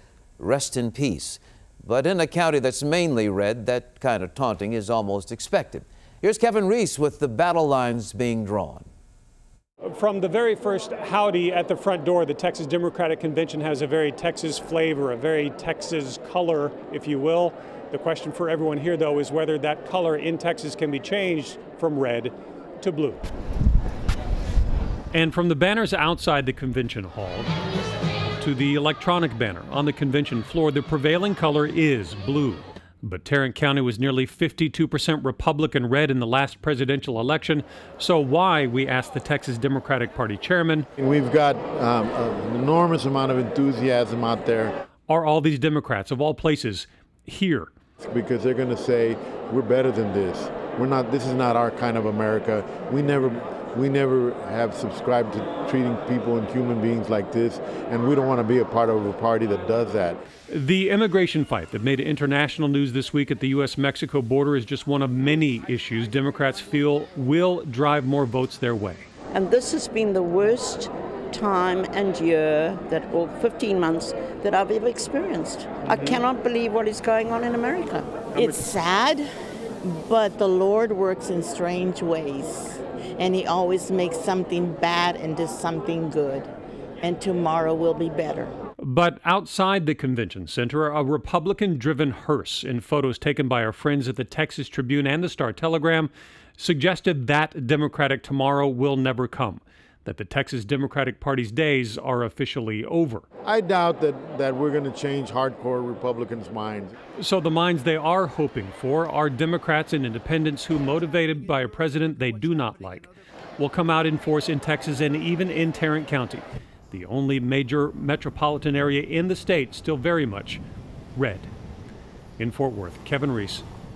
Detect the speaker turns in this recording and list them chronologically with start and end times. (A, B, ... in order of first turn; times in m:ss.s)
0:00.4-0:08.9 A
0:09.8-0:23.2 B
0:25.1-0:27.5 B
0:28.4-0:40.9 B
0:41.0-0:44.8 C
0:45.1-0:47.7 B
0:48.0-1:00.2 C
1:00.5-1:09.0 B
1:09.3-1:18.6 D
1:18.3-1:19.3 E
1:19.8-1:26.5 E
1:27.0-1:28.5 E
1:28.8-1:43.2 B
1:43.4-1:47.0 C
1:47.2-2:00.6 B
2:01.1-2:01.5 B
2:02.4-2:03.6 B